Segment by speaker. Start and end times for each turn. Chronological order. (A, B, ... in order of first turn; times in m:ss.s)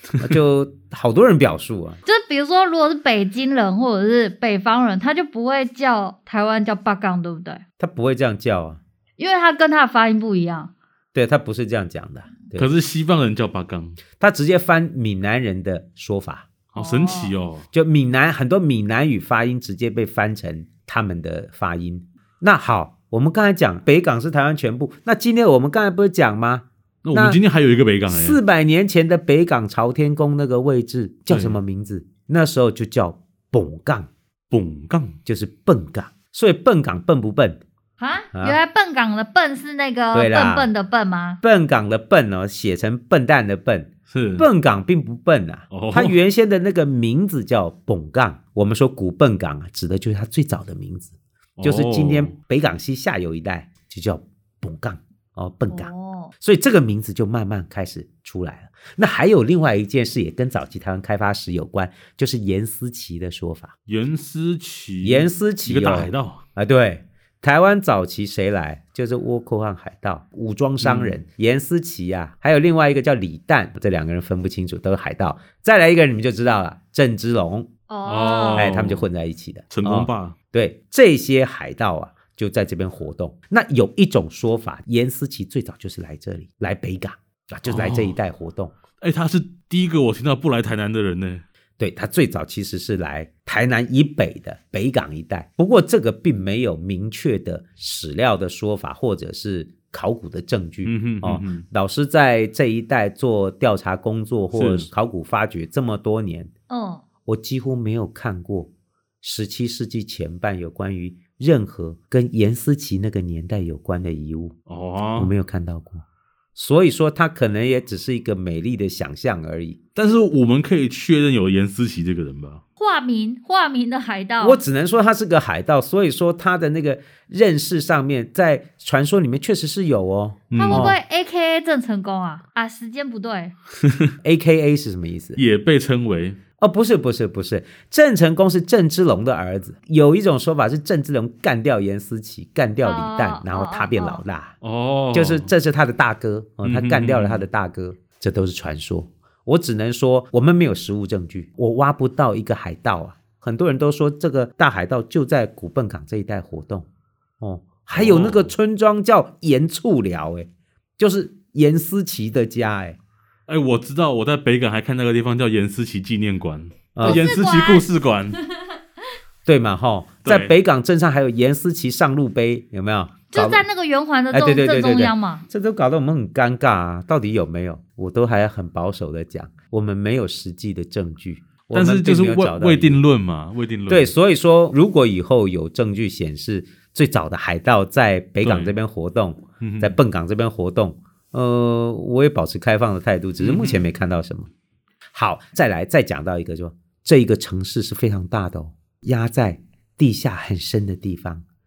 0:00.2-0:02.0 A
0:02.0-0:07.6 B
0:07.8-0:08.8 A
0:09.2-0:10.7 B
0:11.1-0:12.7 A
0:12.5-0:14.0 C
0:14.2-0:16.5 A
0:16.7-0:17.6 C
0:16.8-0:17.3 B
0:17.7-0:27.4 A
0:27.0-0:28.4 C
0:28.1-0:34.1 A
0:31.3-0:31.6 C
0:34.5-0:35.2 C
0:35.2-0:37.6 A
0:38.0-0:41.4 B
0:38.3-0:38.6 A
0:40.1-0:40.7 A
0:41.4-1:03.7 A
0:44.1-0:44.4 C
0:45.7-0:46.1 C
0:51.6-0:52.3 C
0:55.7-0:56.3 B
1:03.9-1:06.4 C
1:05.0-1:17.7 A
1:10.8-1:11.2 C
1:17.9-1:18.7 B
1:18.0-1:19.1 C
1:18.5-1:28.7 A
1:19.7-1:20.3 C
1:27.7-1:28.1 C
1:29.0-1:31.4 C
1:31.8-1:46.5 A
1:40.8-1:41.6 C
1:44.5-1:44.9 C
1:46.7-1:47.0 B
1:47.2-1:48.7 A
1:49.2-1:54.6 A
1:54.7-1:55.3 C
1:55.1-1:56.0 A
1:56.6-1:59.8 A
2:00.0-2:02.6 C
2:02.8-2:04.6 B
2:04.4-2:11.0 A
2:10.5-2:11.0 C
2:10.6-2:13.5 B
2:14.2-2:15.4 A
2:15.4-2:16.4 C
2:16.6-2:24.5 A
2:22.8-2:24.2 B
2:24.6-2:25.5 C
2:25.1-2:36.9 A
2:26.6-2:27.5 C
2:37.4-2:43.0 A
2:37.9-2:38.5 C
2:43.5-2:48.4 C
2:46.9-2:47.2 A
2:47.0-2:48.7 B
2:49.4-2:53.6 A
2:50.2-2:50.5 C
2:53.3-2:55.4 B
2:54.3-3:03.0 A
3:01.7-3:04.1 C
3:03.9-3:14.5 A
3:08.4-3:08.8 C
3:09.6-3:10.0 C
3:13.4-3:13.9 C
3:15.1-3:21.4 A